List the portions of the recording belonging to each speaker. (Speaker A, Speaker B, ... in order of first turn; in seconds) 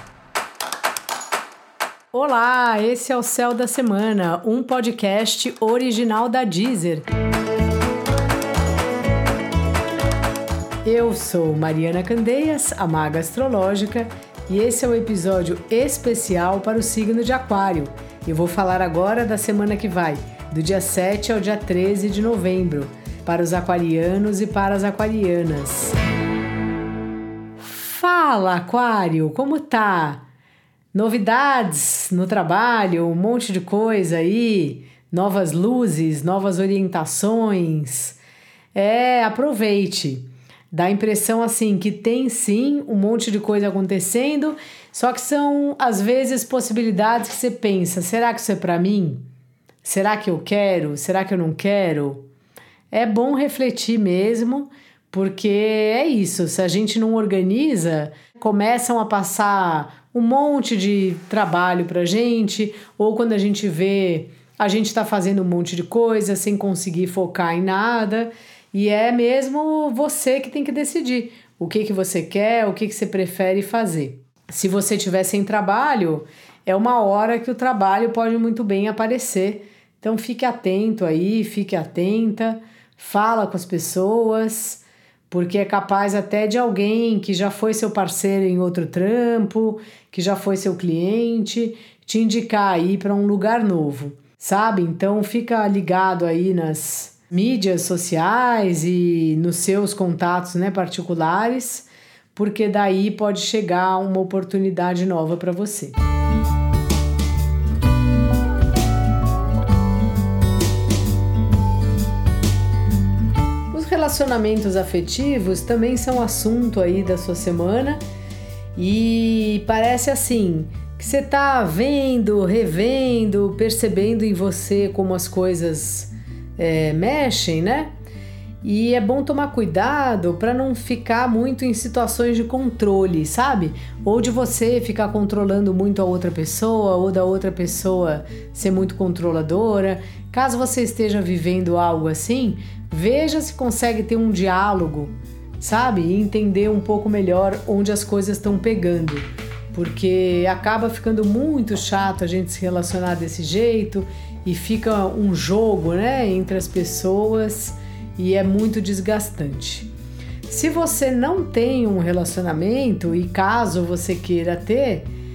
Speaker A: 2.1-7.1, 10.8-26.0, 27.6-30.2, 30.9-38.2, 38.7-49.2, 49.8-52.2, 52.9-106.0, 113.7-118.0, 118.8-127.9, 128.6-159.9, 160.5-165.1